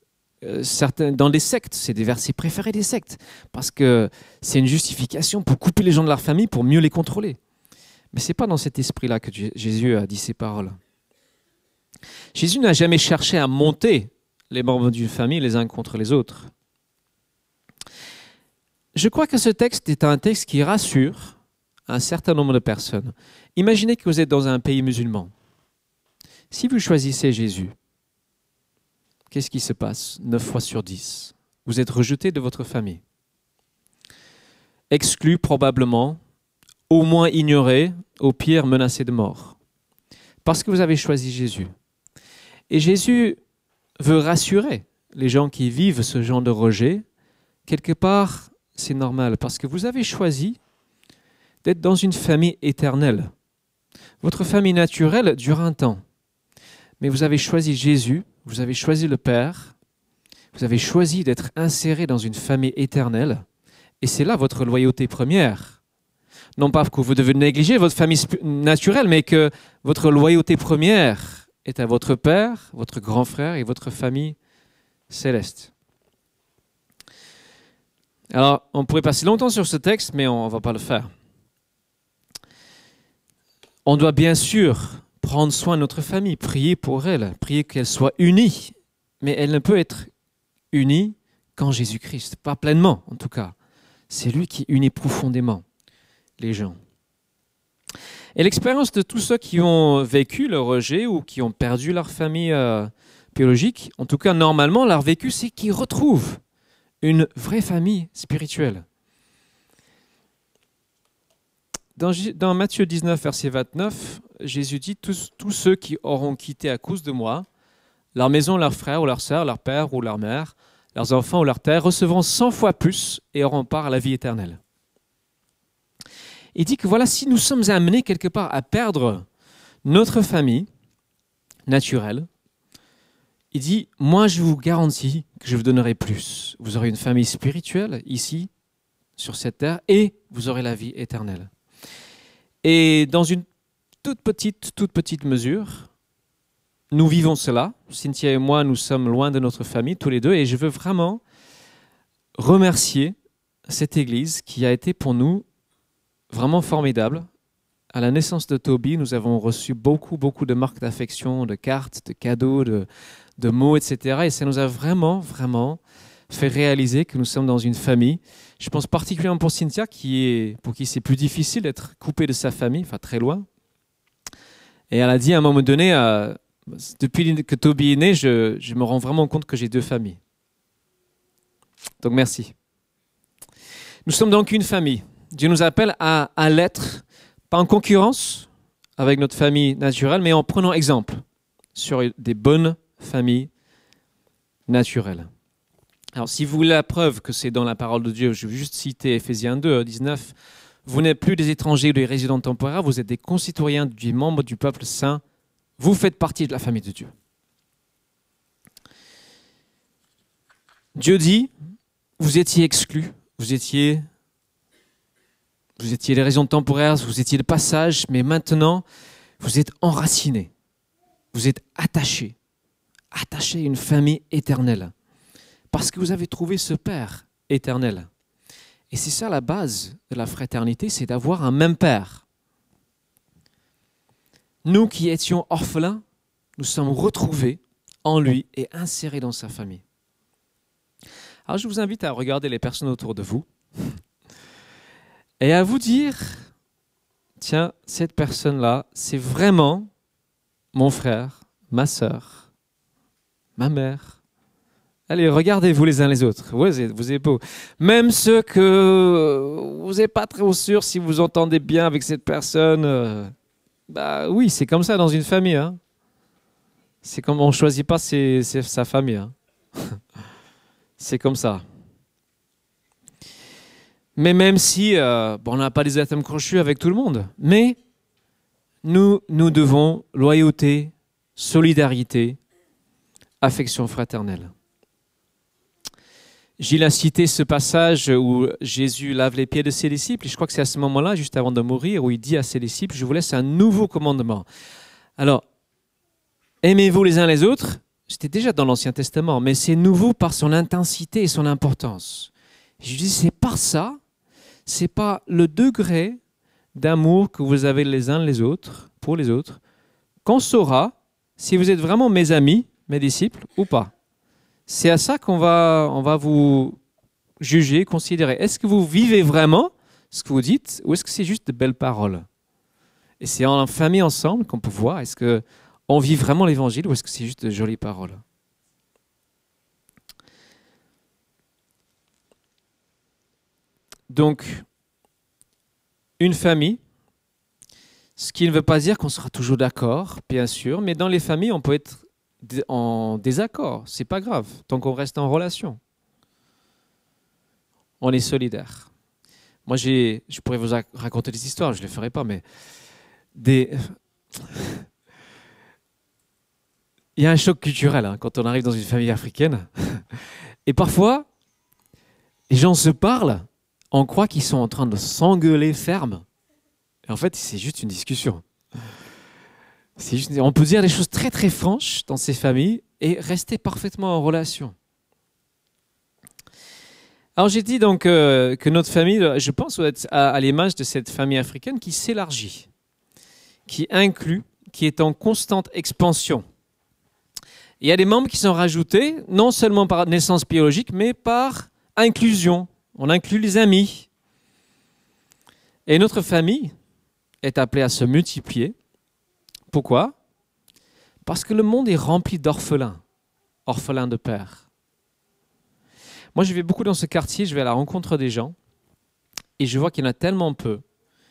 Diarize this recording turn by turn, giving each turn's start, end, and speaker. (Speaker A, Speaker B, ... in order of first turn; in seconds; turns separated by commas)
Speaker A: 0.4-7.4, Speaker A: 8.1-10.8, Speaker A: 12.3-16.5, Speaker A: 18.9-21.4, Speaker A: 21.9-25.3, Speaker A: 26.5-27.7, Speaker A: 29.3-33.0, Speaker A: 34.9-36.2, Speaker A: 36.9-39.5, Speaker A: 40.4-41.7, Speaker A: 42.7-43.4, Speaker A: 44.0-47.0, Speaker A: 47.6-50.6, Speaker A: 51.6-53.3, Speaker A: 54.2-56.0, Speaker A: 57.0-59.7, Speaker A: 60.5-63.4, Speaker A: 64.0-65.8, Speaker A: 66.6-74.4, Speaker A: 75.1-75.7, Speaker A: 78.3-81.1, Speaker A: 83.8-90.1, Speaker A: 90.7-93.5, Speaker A: 94.1-95.6, Speaker A: 96.4-96.8, Speaker A: 98.3-106.4, Speaker A: 107.0-108.8, Speaker A: 112.0-117.5, Speaker A: 118.1-124.6, Speaker A: 126.5-129.2, Speaker A: 129.8-130.7, Speaker A: 131.7-132.3, Speaker A: 133.5-138.5, Speaker A: 139.2-141.5, Speaker A: 142.6-143.4, Speaker A: 144.0-145.9, Speaker A: 146.9-151.2, Speaker A: 152.4-153.1, Speaker A: 153.7-155.4, Speaker A: 156.3-157.3, Speaker A: 157.9-162.9, Speaker A: 163.4-173.4, Speaker A: 174.9-180.2, Speaker A: 182.0-182.5, Speaker A: 184.1-191.2, Speaker A: 191.7-193.5, Speaker A: 194.7-195.3, Speaker A: 196.2-205.2, Speaker A: 205.8-207.1, Speaker A: 210.9-211.5, Speaker A: 212.2-214.0, Speaker A: 215.8-218.8, Speaker A: 219.4-220.5, Speaker A: 221.3-222.3, Speaker A: 223.1-224.9, Speaker A: 225.7-228.1, Speaker A: 228.9-232.2, Speaker A: 234.6-236.0, Speaker A: 236.6-239.8, Speaker A: 241.5-243.9, Speaker A: 245.4-246.5, Speaker A: 247.4-249.9, Speaker A: 250.7-252.4, Speaker A: 253.6-254.2, Speaker A: 255.1-263.3, Speaker A: 263.9-265.8, Speaker A: 267.0-269.3, Speaker A: 271.0-271.6, Speaker A: 274.1-277.8, Speaker A: 278.8-282.4, Speaker A: 283.4-284.5, Speaker A: 286.6-294.4, Speaker A: 295.2-295.4, Speaker A: 296.6-304.0, Speaker A: 304.6-306.2, Speaker A: 306.7-309.6, Speaker A: 310.2-313.9, Speaker A: 314.7-316.8, Speaker A: 317.4-322.2, Speaker A: 323.2-328.2, Speaker A: 334.1-334.6, Speaker A: 336.2-336.8, Speaker A: 338.2-345.8, Speaker A: 348.0-348.9, Speaker A: 349.6-352.4, Speaker A: 353.3-354.8, Speaker A: 357.1-360.0, Speaker A: 360.6-361.2, Speaker A: 362.5-366.2, Speaker A: 367.1-368.4, Speaker A: 370.0-374.7, Speaker A: 377.4-382.7, Speaker A: 383.7-386.4, Speaker A: 387.8-394.1, Speaker A: 395.9-396.7, Speaker A: 397.4-398.7, Speaker A: 399.7-400.1, Speaker A: 401.2-403.0, Speaker A: 403.7-404.6, Speaker A: 406.3-408.6, Speaker A: 409.6-410.8